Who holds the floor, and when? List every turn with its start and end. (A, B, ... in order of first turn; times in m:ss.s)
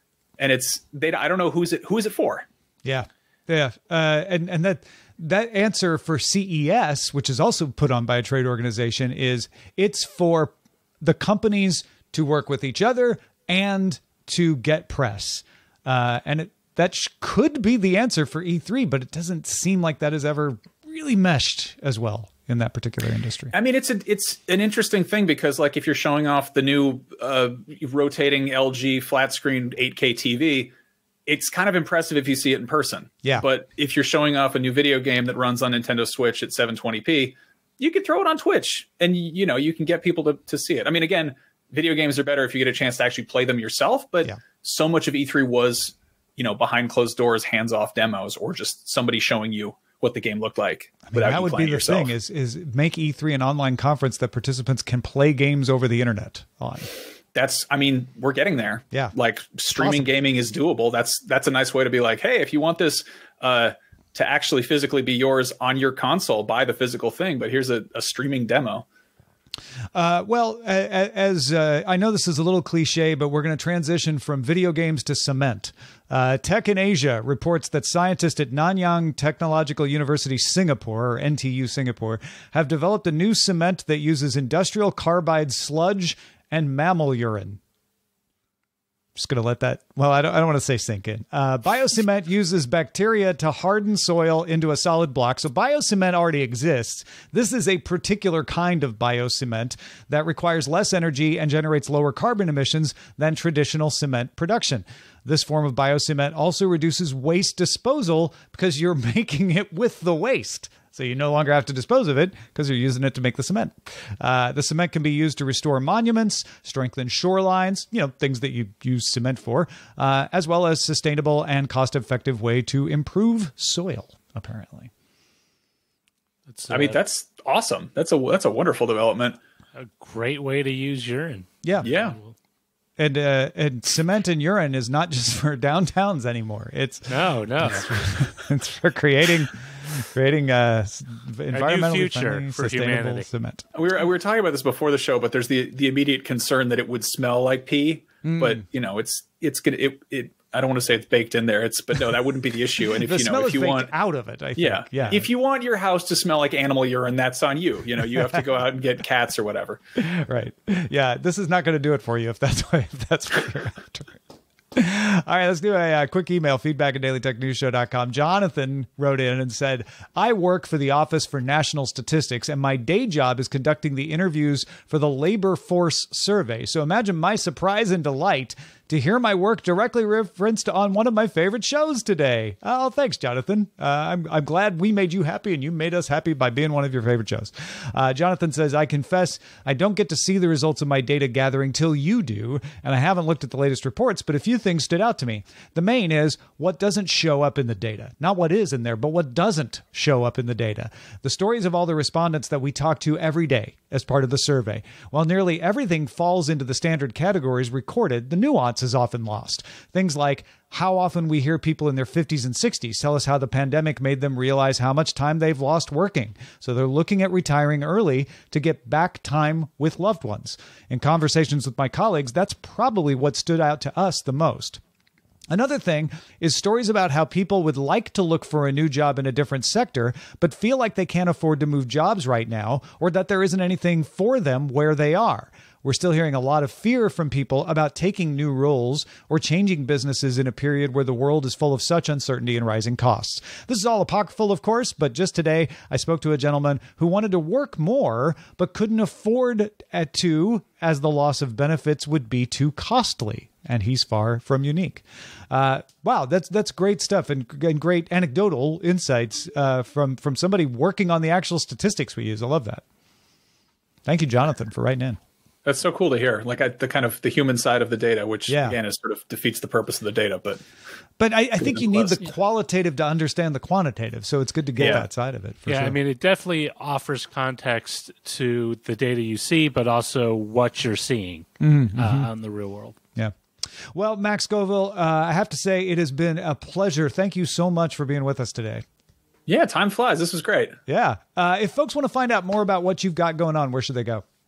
0:00.4-0:02.5 A
0:02.8-0:23.6 B
0:23.5-0:30.7 A
0:31.3-0:52.1 A
0:51.1-0:56.9 B
0:57.3-1:08.8 A
0:59.8-1:00.1 B
1:10.0-1:27.6 B
1:29.2-2:04.9 B
2:06.5-2:07.0 C
2:06.7-2:09.4 A
2:09.8-2:12.3 C
2:11.6-2:11.9 B
2:11.8-2:12.2 A
2:13.0-2:23.6 B
2:17.1-2:18.1 C
2:21.5-2:23.3 C
2:23.7-2:33.9 A
2:28.2-2:28.6 B
2:33.0-2:35.3 B
2:34.6-2:39.8 A
2:40.0-2:44.2 B
2:44.7-3:44.8 B
3:45.5-4:22.8 B
4:24.1-4:25.2 B
4:25.6-4:30.6 A
4:28.5-4:28.8 B
4:31.2-4:36.0 B
4:31.6-4:32.2 A
4:34.8-4:35.1 A
4:35.7-4:43.0 C
4:41.6-4:42.3 B
4:43.9-4:48.8 B
4:49.5-4:50.8 A
4:50.9-4:54.2 B